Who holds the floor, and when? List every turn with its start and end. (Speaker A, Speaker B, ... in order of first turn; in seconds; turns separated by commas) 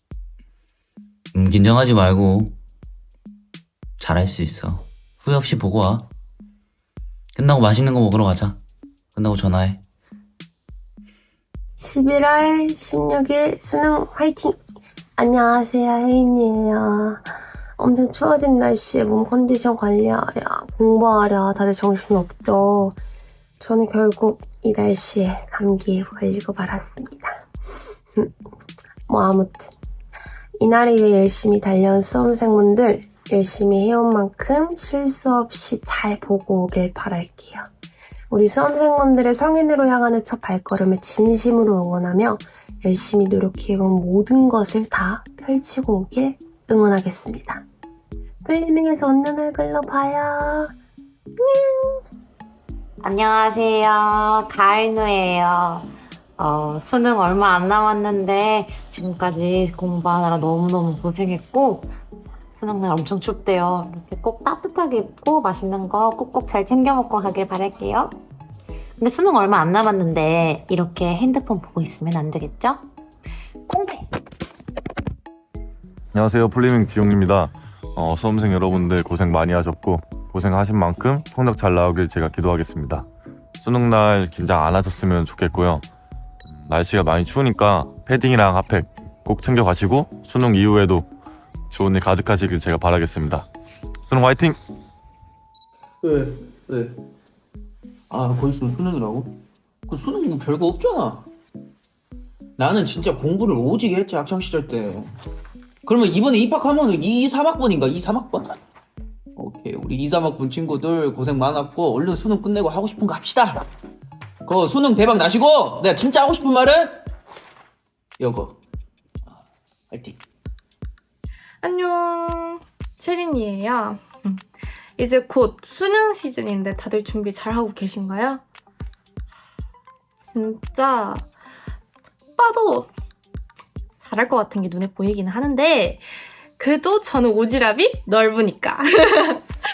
Speaker A: 1.3-2.6, Speaker A: 4.0-6.1, Speaker A: 7.3-8.6, Speaker A: 9.1-9.8, Speaker B: 11.8-14.6, Speaker B: 15.2-17.2, Speaker B: 17.8-23.0, Speaker B: 23.6-27.4, Speaker B: 29.1-29.7, Speaker B: 30.6-37.6, Speaker B: 38.3-47.6, Speaker B: 48.4-50.7, Speaker B: 51.4-51.9, Speaker C: 53.0-61.9, Speaker C: 62.4-68.2, Speaker C: 69.0-72.8, Speaker C: 73.7-74.1, Speaker D: 76.1-83.1, Speaker D: 83.6-85.8, Speaker D: 86.6-91.1, Speaker D: 91.7-93.5, Speaker D: 94.1-94.6, Speaker E: 96.0-96.9, Speaker E: 98.1-99.3, Speaker E: 99.9-101.3, Speaker E: 102.6-105.1, Speaker E: 105.8-108.5, Speaker E: 109.4-113.6, Speaker E: 114.4-117.0, Speaker E: 118.2-118.6, Speaker E: 119.9-120.2, Speaker F: 121.6-124.4, Speaker F: 125.0-128.4, Speaker F: 130.2-131.2, Speaker F: 132.4-132.9, Speaker F: 134.0-139.4